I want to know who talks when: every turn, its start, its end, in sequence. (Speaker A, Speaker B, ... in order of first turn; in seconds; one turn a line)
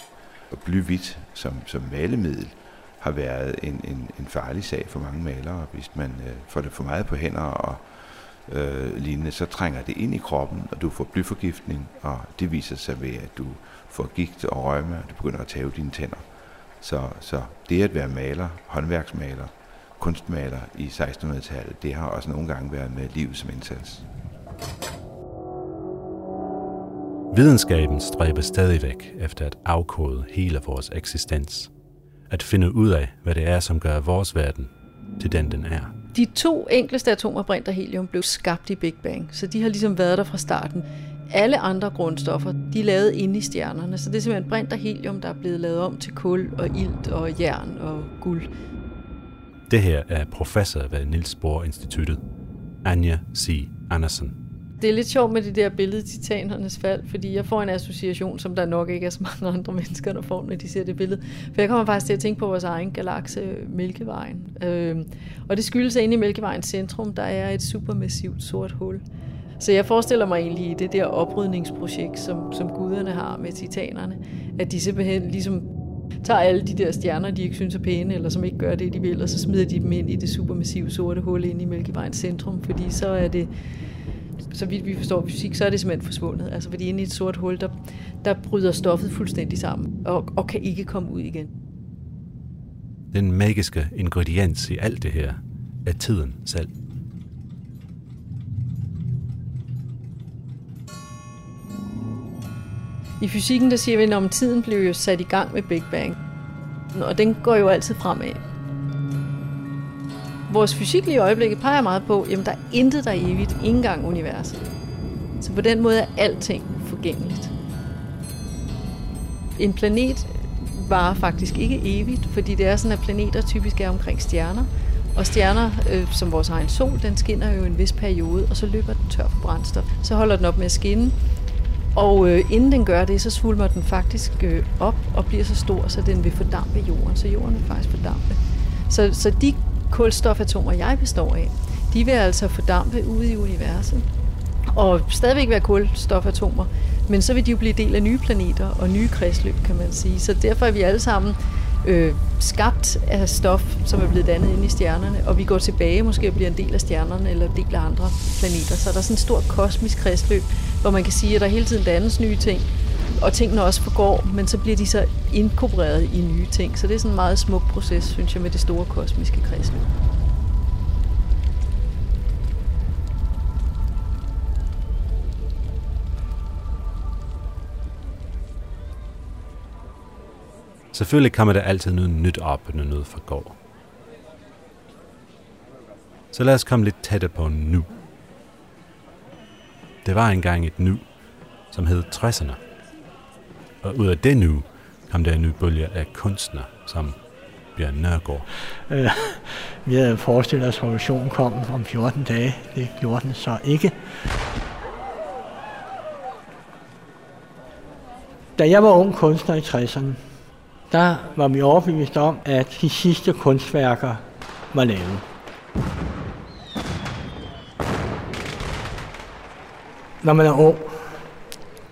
Speaker A: 0.5-16.3
Speaker A: 16.8-24.1
Speaker B: 27.3-31.7
Speaker B: 32.3-35.9
Speaker C: 36.1-48.5
Speaker B: 49.7-52.2
Speaker B: 52.8-54.4
Speaker C: 54.8-69.0
Speaker C: 69.6-75.7
Speaker C: 76.2-83.5
Speaker C: 84.5-91.5
Speaker B: 93.1-96.7
Speaker C: 103.2-106.2
Speaker C: 106.9-108.4
Speaker C: 110.5-114.6
Speaker C: 115.4-117.5
Speaker C: 119.6-131.2
Speaker C: 131.9-138.4
Speaker C: 138.9-144.1
Speaker C: 144.7-169.9
Speaker B: 180.9-183.6
Speaker B: 186.3-187.9
Speaker B: 190.1-191.1
Speaker B: 191.7-192.6
Speaker B: 193.8-197.2
Speaker B: 197.8-198.5
Speaker D: 198.9-204.0
Speaker D: 208.6-210.2
Speaker D: 210.9-215.3
Speaker D: 220.2-221.2